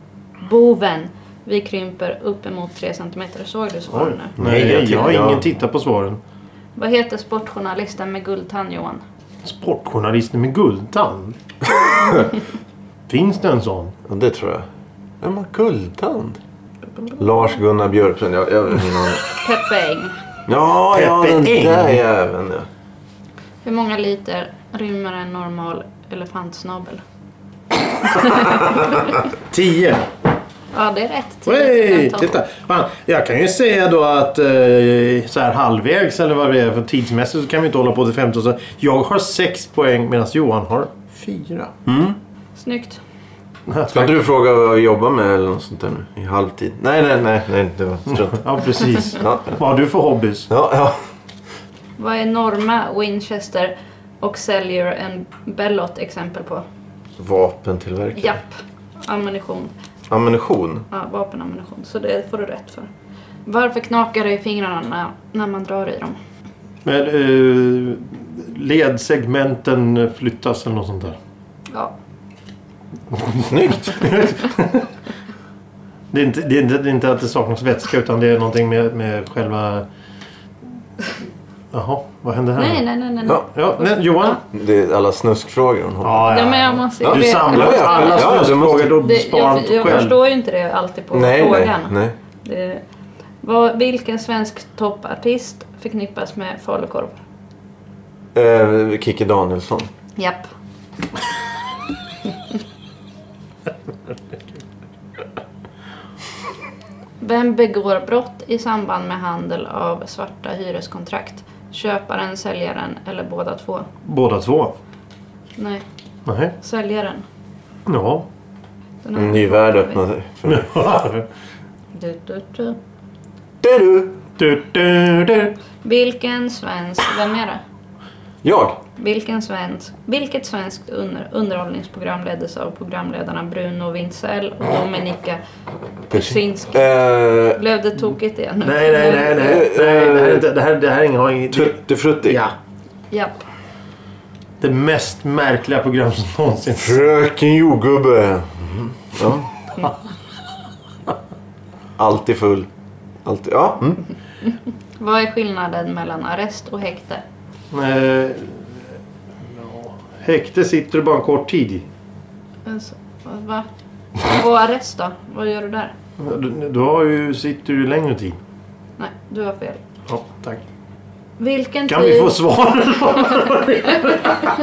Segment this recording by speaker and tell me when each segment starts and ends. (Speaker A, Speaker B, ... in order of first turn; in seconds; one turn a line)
Speaker A: 0.4-4.3
Speaker B: 3.9-6.2
Speaker C: 4.4-5.5
Speaker A: 6.8-9.0
Speaker B: 9.4-11.3
Speaker B: 13.1-13.9
Speaker C: 14.1-14.6
Speaker C: 15.2-16.4
Speaker C: 17.2-19.2
Speaker A: 19.4-20.1
Speaker C: 20.5-22.6
Speaker B: 20.9-22.0
Speaker A: 23.6-27.0
Speaker A: 28.0-28.8
Speaker B: 29.5-30.0
Speaker A: 30.7-32.3
Speaker B: 31.5-41.7
Speaker C: 41.9-42.2
Speaker A: 42.5-43.0
Speaker B: 43.7-44.2
Speaker C: 43.9-49.6
Speaker B: 48.1-50.5
Speaker C: 50.5-51.0
Speaker A: 52.0-56.6
Speaker C: 57.2-58.4
Speaker A: 58.1-59.7
Speaker C: 60.1-60.8
Speaker A: 60.9-62.9
Speaker A: 63.5-66.2
Speaker B: 66.8-71.2
Speaker B: 73.1-74.9
Speaker C: 73.5-74.0
Speaker B: 76.1-79.8
Speaker B: 81.7-84.4
Speaker A: 82.6-84.4
Speaker C: 84.5-86.4
Speaker B: 86.0-90.2
Speaker A: 86.2-88.5
Speaker C: 87.0-89.0
Speaker A: 89.0-92.8
Speaker C: 89.8-90.1
Speaker C: 91.1-92.1
Speaker A: 93.4-97.1
Speaker C: 98.3-99.9
Speaker A: 100.2-100.5
Speaker A: 107.2-113.9
Speaker B: 114.0-114.7
Speaker A: 115.6-115.8
Speaker B: 116.2-116.5
Speaker A: 116.6-117.2
Speaker B: 117.9-118.3
Speaker A: 119.0-120.0
Speaker C: 119.2-120.7
Speaker B: 120.5-121.3
Speaker A: 121.9-122.8
Speaker C: 123.6-124.2
Speaker B: 124.4-125.5
Speaker A: 125.8-127.6
Speaker C: 128.4-128.8
Speaker A: 129.0-135.4
Speaker A: 136.1-136.9
Speaker C: 136.1-137.6
Speaker A: 137.5-139.6
Speaker B: 138.6-142.5
Speaker C: 139.3-140.4
Speaker C: 141.5-142.4
Speaker A: 143.1-143.4
Speaker B: 144.6-147.0
Speaker C: 146.8-149.5
Speaker C: 152.0-152.7
Speaker C: 153.2-154.0
Speaker A: 155.0-157.2
Speaker B: 157.7-158.8
Speaker B: 159.4-161.8
Speaker A: 162.7-165.9
Speaker B: 166.2-168.4
Speaker A: 169.0-169.8
Speaker B: 170.1-170.6
Speaker A: 171.4-172.4
Speaker B: 171.9-174.5